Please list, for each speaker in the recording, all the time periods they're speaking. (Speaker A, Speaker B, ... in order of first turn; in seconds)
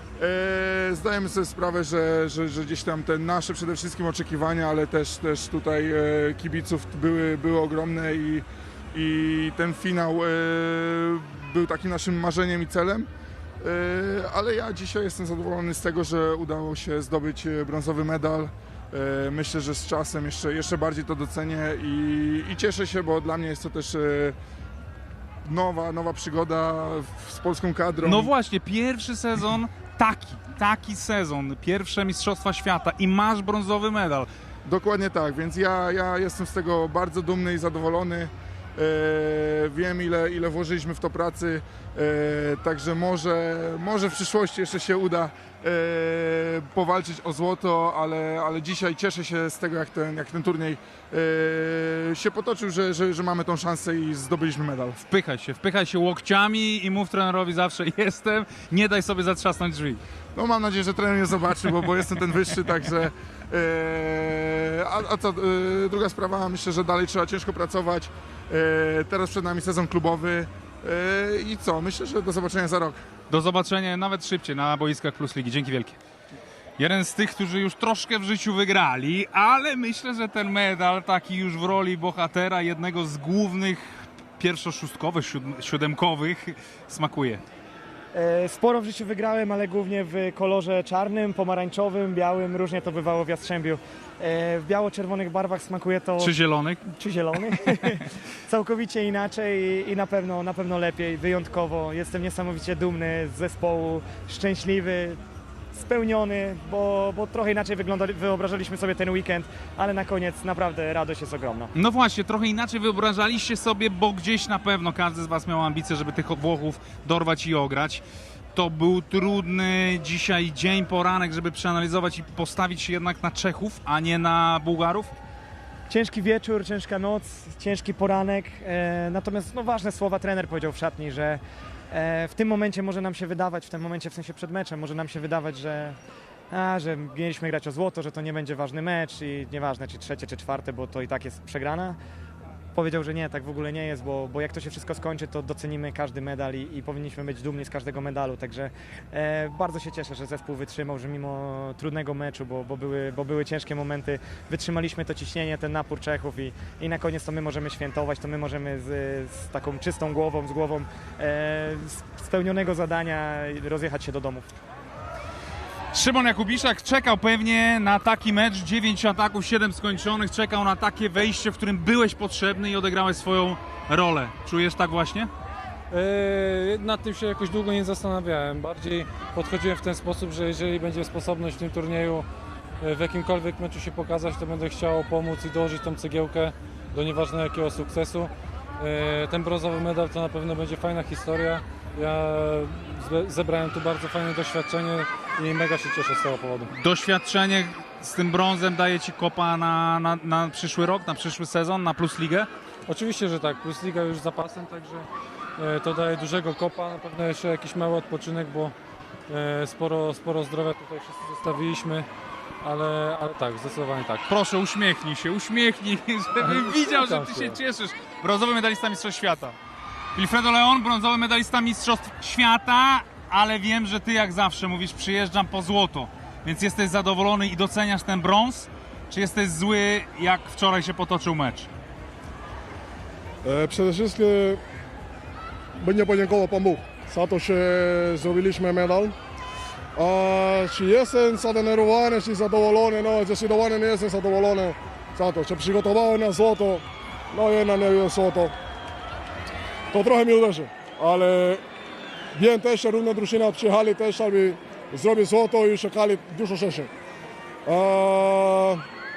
Speaker A: 0.2-13.1, 13.6-24.4, 25.4-28.3, 34.6-55.0, 60.4-73.0
Speaker B: 28.0-34.3, 55.1-60.0, 73.3-76.0, 76.8-87.4, 96.2-96.8, 111.7-118.0, 118.5-125.1, 165.9-175.3, 196.7-202.5, 214.3-219.6, 220.2-231.7
Speaker C: 88.1-96.3, 96.9-105.2, 105.7-111.7, 125.9-131.4, 131.9-136.0, 136.5-142.0, 142.8-164.5
Speaker D: 175.9-182.3, 182.8-196.7, 202.9-208.8, 209.3-212.1, 212.6-214.3, 216.4-217.6
Speaker E: 233.4-234.6, 235.8-239.2, 240.0-248.6, 249.9-251.6, 252.3-256.9, 257.7-258.8